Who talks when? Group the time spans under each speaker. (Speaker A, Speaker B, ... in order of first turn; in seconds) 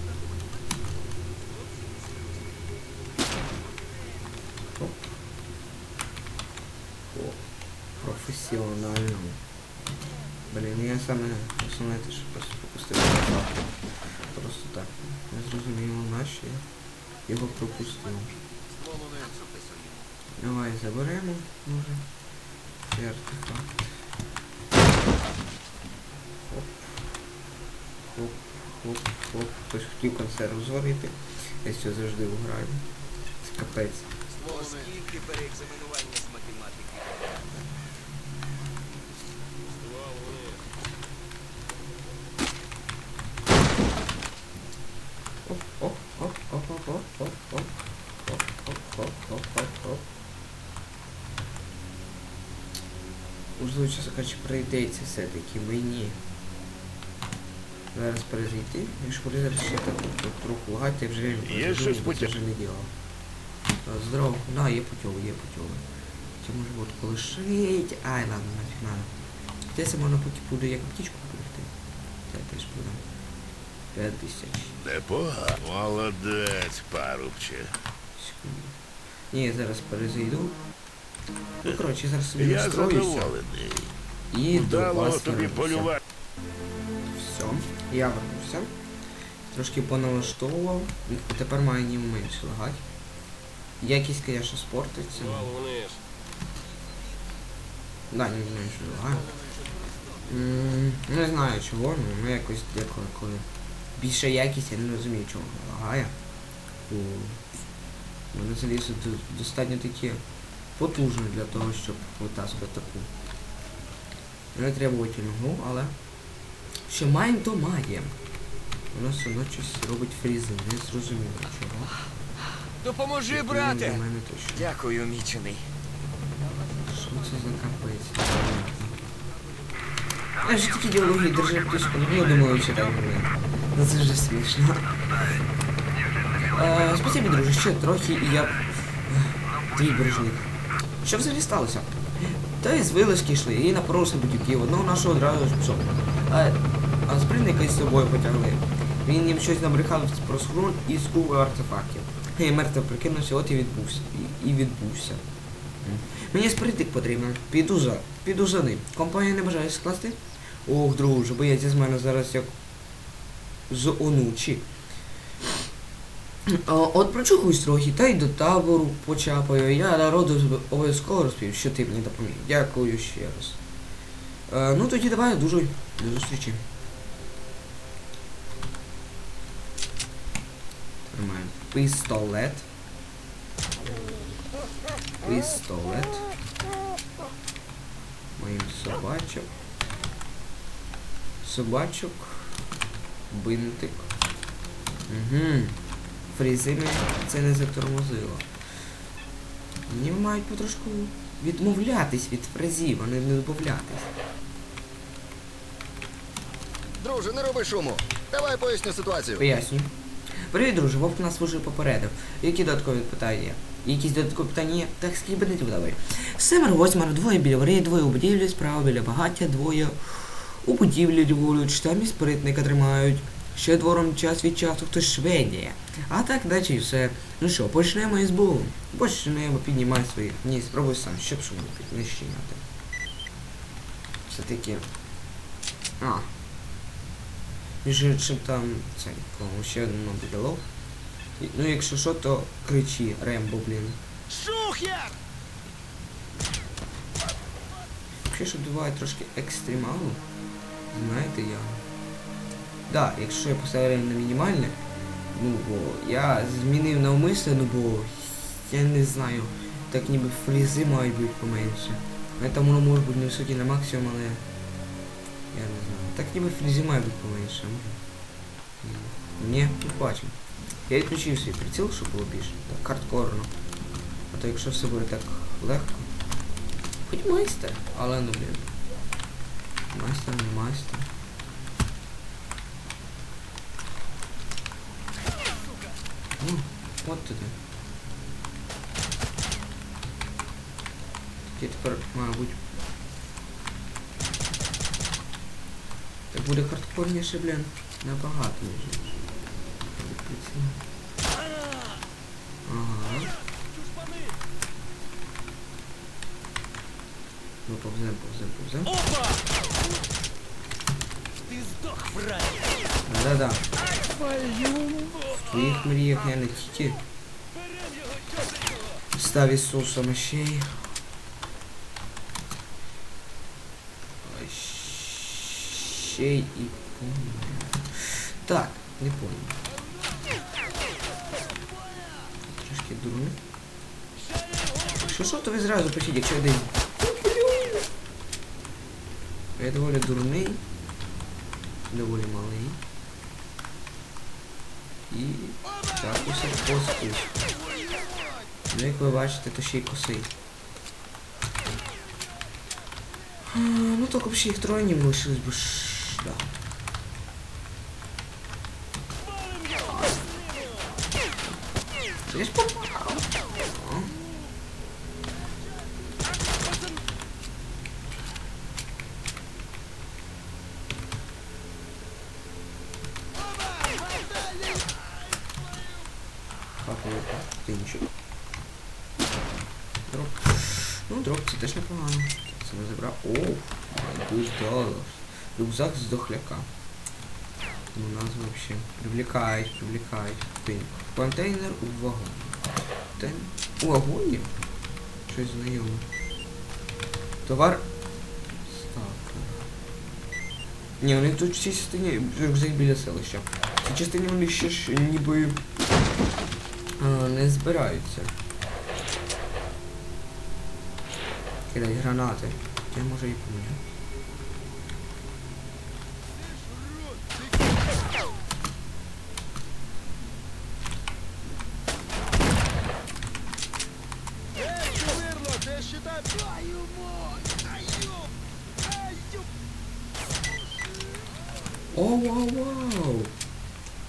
Speaker A: 4.7-5.1, 7.1-7.4, 8.0-9.4, 10.5-13.7, 14.3-16.6, 17.3-18.3, 20.4-22.0, 22.8-23.8, 26.5-27.0, 28.1-32.8, 33.4-34.1, 45.5-47.7, 48.2-50.0, 53.6-56.2, 57.9-62.9, 63.8-65.8, 66.4-69.1, 69.7-71.7, 72.3-73.0, 73.9-74.8, 78.2-78.7, 79.3-80.5, 81.6-83.4, 84.3-86.0, 87.1-88.7, 89.5-92.8, 93.8-95.5, 98.1-99.3, 100.2-106.1, 106.9-107.4, 108.3-110.2, 110.8-113.1, 114.5-116.0, 116.9-118.1, 118.9-121.9, 123.3-124.7, 126.9-129.0, 130.4-134.9, 136.4-140.5, 141.0-155.2, 155.8-162.5, 163.7-164.7, 166.5-173.6, 174.5-176.6, 181.1-182.7, 185.2-186.3, 188.4-189.5, 191.4-192.5, 193.3-194.1, 195.1-195.8, 196.3-198.5, 199.9-204.1, 209.4-209.9, 210.5-232.6, 234.3-234.8, 236.0-236.3, 237.8-240.6, 241.4-244.0, 248.3-250.2, 250.9-251.8, 252.9-254.8, 255.3-264.4, 265.5-268.0, 268.8-270.4, 270.9-273.5, 274.3-276.1, 277.1-278.7, 279.9-281.1, 286.4-287.5, 291.5-292.6, 296.3-299.2, 299.9-300.8, 302.6-303.3, 307.6-308.9, 313.1-313.7, 315.3-317.0, 319.1-320.8, 324.2-329.6, 332.5-333.4, 335.0-337.8, 339.6-340.6, 341.9-342.8, 345.1-347.3, 348.7-350.3, 353.5-356.5, 362.3-364.1, 376.7-378.1, 380.1-386.7, 387.9-392.6, 393.2-394.5, 395.3-396.1, 397.4-397.8, 398.7-399.7, 401.0-405.6, 407.0-408.3, 411.7-413.8, 431.9-433.3
Speaker B: 18.7-20.0, 34.3-37.6, 39.7-40.6, 95.1-96.0, 122.8-124.0, 124.5-125.6, 244.3-245.2, 311.5-312.6, 314.1-315.2, 373.8-375.0, 424.8-428.3, 429.1-429.4
Speaker C: 34.4-34.9, 207.0-209.4
Speaker D: 61.4-62.3, 74.8-77.7, 82.4-83.9, 84.5-86.0